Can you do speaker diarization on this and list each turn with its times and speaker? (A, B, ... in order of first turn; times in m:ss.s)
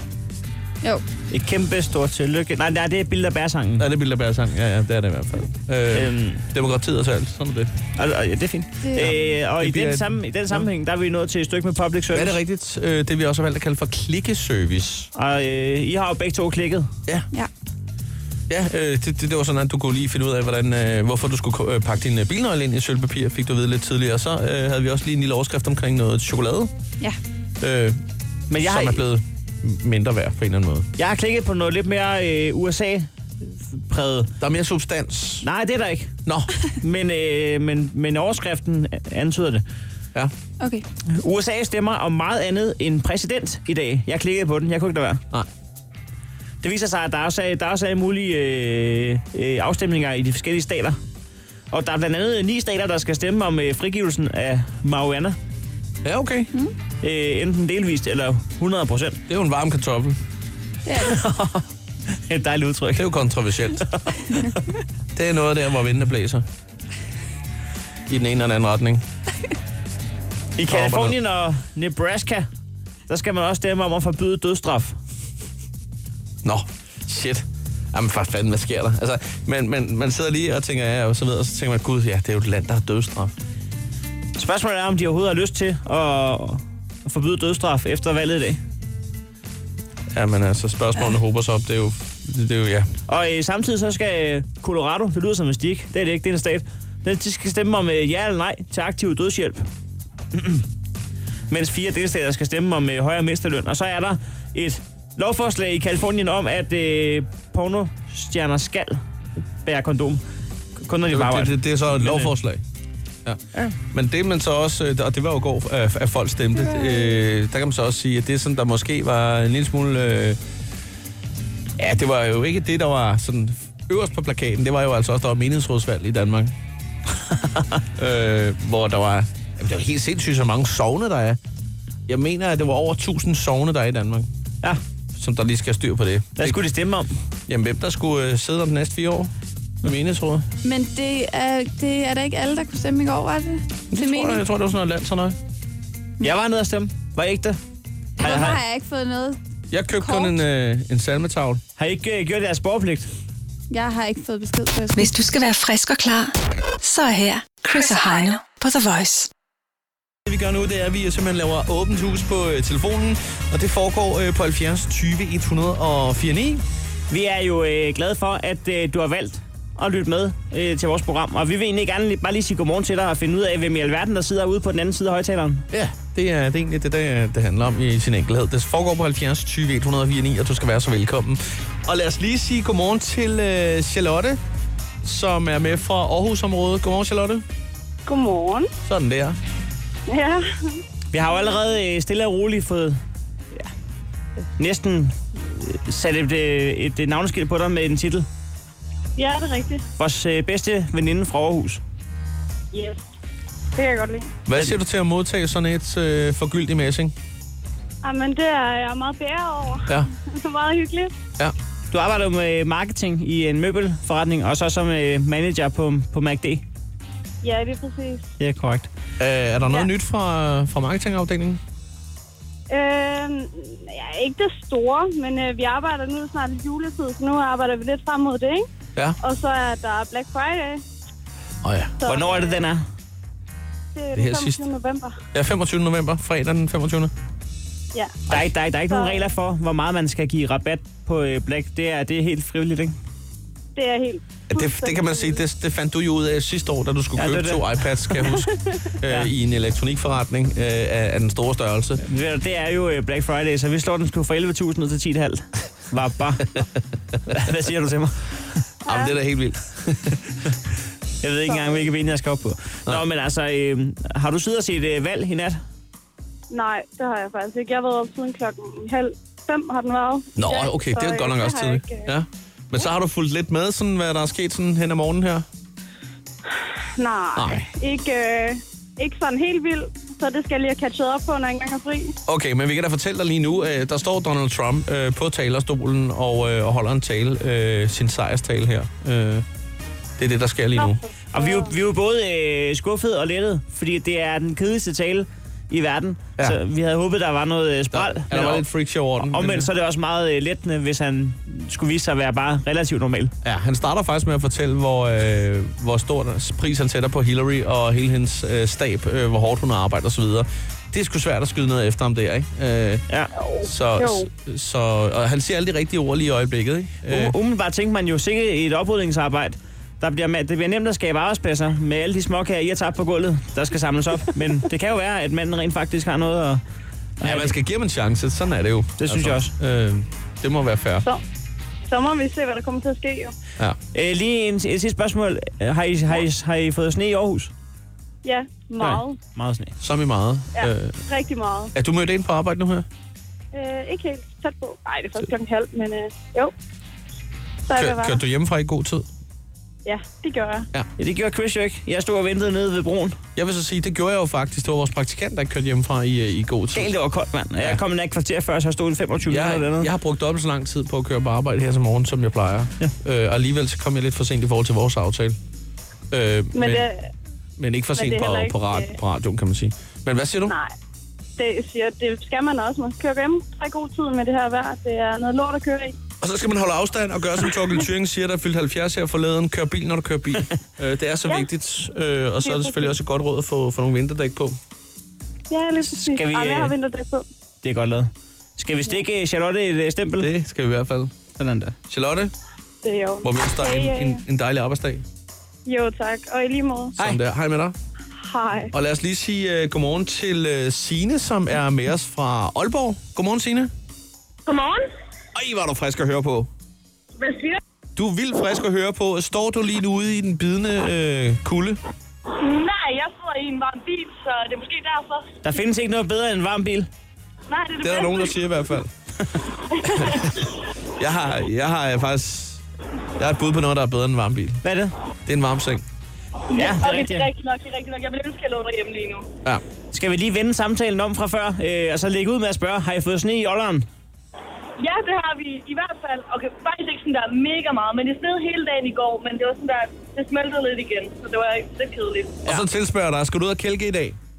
0:01.3-0:03.8 A
0:03.8-0:07.7 B
0:05.9-0:06.4 A
0:08.0-0:12.4 A
0:08.8-0:09.1 C
0:09.0-0:10.6 B
0:12.1-0:15.1 B
0:15.1-0:16.9 A
0:18.5-0:26.7 B
0:27.6-0:28.0 B
0:28.5-0:29.0 A
0:28.6-0:30.9 B
0:31.0-0:34.3 A
0:34.4-0:35.4 B
0:35.4-0:36.1 A
0:36.2-0:36.5 B
0:36.8-0:39.6 A
0:40.6-0:40.8 C
0:41.1-0:45.2 A
0:46.6-0:51.0 A
0:51.7-0:55.4 A
0:56.0-0:56.5 B
0:57.0-0:59.2 A
0:59.3-1:00.2 B
1:00.8-1:01.2 C
1:01.0-1:03.1 A
1:02.9-1:03.8 B
1:03.9-1:04.6 A
1:05.1-1:06.4 B
1:08.1-1:09.0 B
1:10.6-1:12.5 A
1:10.7-1:11.2 B
1:13.1-1:15.0 A
1:16.4-1:23.3 B
1:24.4-1:28.6 A
1:30.1-1:32.9 B
1:33.1-1:39.7 A
1:40.3-1:40.6 A
1:41.5-1:49.0 A
1:49.6-1:50.2 A
1:50.8-1:52.3 A
1:51.1-1:52.6 B
1:53.2-2:00.4 B
1:56.7-1:57.1 C
2:01.8-2:06.5 B
2:07.3-2:07.8 A
2:08.0-2:11.4 B
2:12.1-2:14.3 B
2:15.1-2:16.6 B
2:16.4-2:17.1 A
2:17.5-2:19.3 B
2:19.8-2:20.4 B
2:20.6-2:24.4 C
2:23.9-2:25.4 B
2:26.2-2:27.6 A
2:28.2-2:29.4 C
2:28.2-2:28.6 A
2:29.7-2:31.6 B
2:29.9-2:30.3 C
2:31.8-2:33.1 A
2:33.7-2:35.1 C
2:34.9-2:39.3 D
2:40.2-2:46.6 B
2:47.1-2:55.6 A
2:55.7-3:04.4 B
3:05.0-3:07.4 B
3:08.0-3:08.7 E
3:08.8-3:09.4 B
3:10.1-3:10.8 E
3:11.1-3:13.0 A
3:14.6-3:18.2 A
3:19.2-3:19.8 E
3:20.0-3:21.8 A
3:22.7-3:23.0 E
3:23.8-3:24.3 E
3:24.4-3:27.1 B
3:28.0-3:31.1 E
3:31.9-3:36.6 A
3:37.4-3:38.3 E
3:38.4-3:38.9 A
3:39.2-3:41.6 B
3:42.7-3:48.7 E
3:49.2-3:50.8 E
3:51.6-3:51.9 B
3:52.0-3:52.6 E
3:52.0-3:52.8 A
3:53.9-3:55.2 E
3:54.1-3:54.6 B
3:55.3-3:57.1 B
3:57.9-3:58.2 E
3:58.3-4:03.0 A
3:58.9-3:59.3 E
4:03.7-4:05.4 E
4:04.5-4:12.0 B
4:07.2-4:08.1 A
4:08.4-4:08.8 E
4:12.0-4:16.6 A
4:17.3-4:18.6 A
4:18.8-4:19.1 E
4:18.8-4:20.4 B
4:21.2-4:25.6 A
4:21.4-4:21.8 E
4:26.5-4:32.1 E
4:30.4-4:35.4 B
4:36.5-4:42.1 E
4:37.3-4:37.7 B
4:42.2-4:49.4 B
4:50.2-4:51.0 B
4:50.8-4:51.7 E
4:51.3-4:58.6 A
4:57.9-4:59.7 B
4:59.2-5:03.3 A
5:03.4-5:13.0 B
5:13.4-5:14.3 E
5:13.6-5:17.3 B
5:17.1-5:26.6 A
5:27.2-5:27.5 A
5:27.2-5:31.0 B
5:29.0-5:29.5 A
5:31.9-5:33.3 E
5:33.9-5:37.5 A
5:38.2-5:39.2 E
5:38.8-5:39.7 A
5:39.8-5:41.0 B
5:40.5-5:41.7 E
5:41.7-5:42.8 B
5:43.5-5:46.5 E
5:47.6-5:48.2 E
5:47.7-5:49.0 B
5:49.8-5:50.7 E
5:51.0-5:53.2 A
5:53.4-5:56.9 B
5:56.7-5:59.9 A
5:59.3-6:05.4 B
6:06.1-6:06.9 B
6:06.5-6:07.1 E
6:07.6-6:10.5 B
6:07.9-6:09.0 E
6:10.5-6:10.7 E
6:11.4-6:16.0 E
6:16.2-6:24.6 B
6:17.5-6:17.8 E
6:22.4-6:23.0 E
6:25.5-6:27.2 E
6:25.9-6:26.8 A
6:27.6-6:30.3 A
6:30.2-6:31.2 B
6:31.4-6:31.7 A
6:31.8-6:32.3 B
6:32.8-6:34.2 E
6:33.2-6:35.0 B
6:35.6-6:36.9 E
6:37.0-6:37.7 B
6:38.2-6:38.7 E
6:38.7-6:43.7 B
6:44.4-6:44.9 E
6:45.3-6:46.5 B
6:47.2-6:47.6 E
6:48.0-6:51.8 B
6:52.3-6:55.3 E
6:55.4-6:56.9 A
6:57.5-6:58.5 E
6:57.8-6:58.9 B
6:59.7-7:00.5 E
7:00.0-7:00.4 B
7:01.0-7:02.6 B
7:03.2-7:04.6 B
7:04.6-7:04.9 A
7:05.2-7:05.8 B
7:06.5-7:09.3 E
7:06.5-7:07.3 A
7:09.9-7:13.8 A
7:14.8-7:22.4 E
7:22.4-7:24.2 B